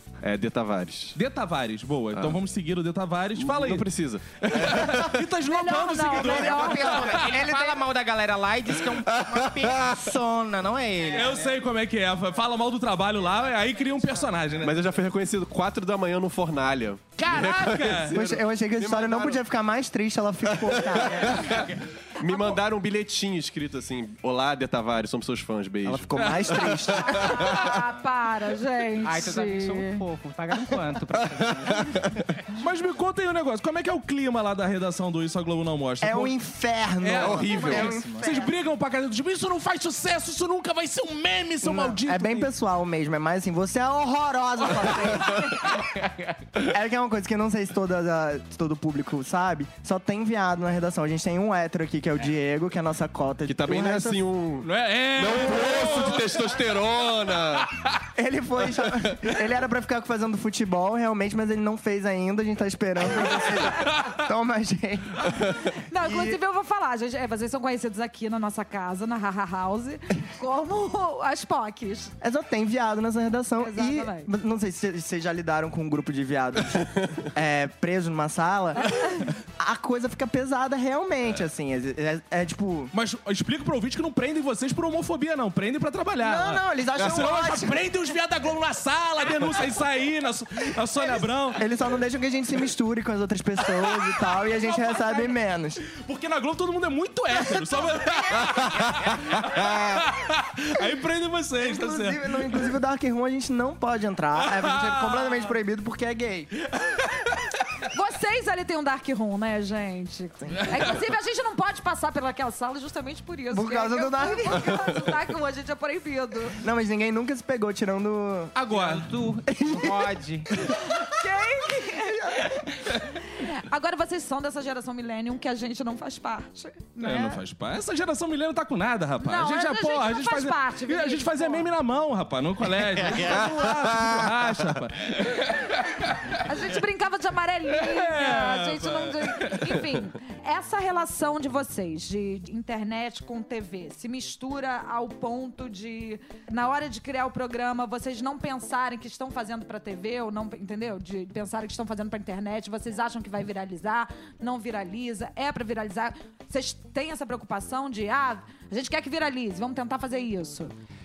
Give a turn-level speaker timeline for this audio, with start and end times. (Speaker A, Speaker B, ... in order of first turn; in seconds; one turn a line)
Speaker A: 0.2-1.2
Speaker B: 1.1-3.9
Speaker A: 2.1-2.4
Speaker A: 3.4-5.3
Speaker B: 4.5-7.2
Speaker C: 5.4-7.2
Speaker D: 6.0-7.8
Speaker E: 6.6-11.6
Speaker A: 9.1-10.0
Speaker B: 11.1-14.7
Speaker A: 14.6-19.4
Speaker B: 17.2-18.2
Speaker D: 18.1-21.6
Speaker A: 20.5-27.8
Speaker E: 21.2-21.7
Speaker C: 22.3-22.6
Speaker D: 25.8-27.5
Speaker B: 26.1-26.5
Speaker C: 27.0-30.0
Speaker E: 29.0-32.5
Speaker A: 31.2-32.2
Speaker B: 32.5-36.3
Speaker D: 36.0-38.5
Speaker B: 37.0-42.5
Speaker A: 37.1-38.0
Speaker E: 37.6-38.3
Speaker D: 41.6-45.7
Speaker D: 46.6-54.2
Speaker A: 53.5-57.7
Speaker B: 54.6-56.4
Speaker D: 58.1-65.4
Speaker A: 65.3-65.6
Speaker C: 65.7-72.2
Speaker D: 65.9-66.4
Speaker D: 72.2-82.9
Speaker C: 73.6-74.3
Speaker C: 78.8-79.3
Speaker B: 82.9-91.6
Speaker D: 86.2-87.9
Speaker D: 91.5-95.8
Speaker B: 94.4-95.3
Speaker B: 95.9-102.6
Speaker D: 97.4-98.7
Speaker D: 101.6-106.5
Speaker B: 104.4-105.5
Speaker B: 106.6-107.6
Speaker C: 107.8-116.6
Speaker B: 110.6-110.8
Speaker D: 113.5-114.7
Speaker D: 116.6-118.5
Speaker B: 118.6-119.1
Speaker E: 118.6-120.5
Speaker D: 119.5-120.1
Speaker C: 120.8-127.4
Speaker D: 122.2-122.6
Speaker B: 127.0-136.4
Speaker C: 129.2-131.7
Speaker E: 133.0-133.3
Speaker A: 133.3-134.3
Speaker C: 136.4-160.7
Speaker B: 137.7-139.9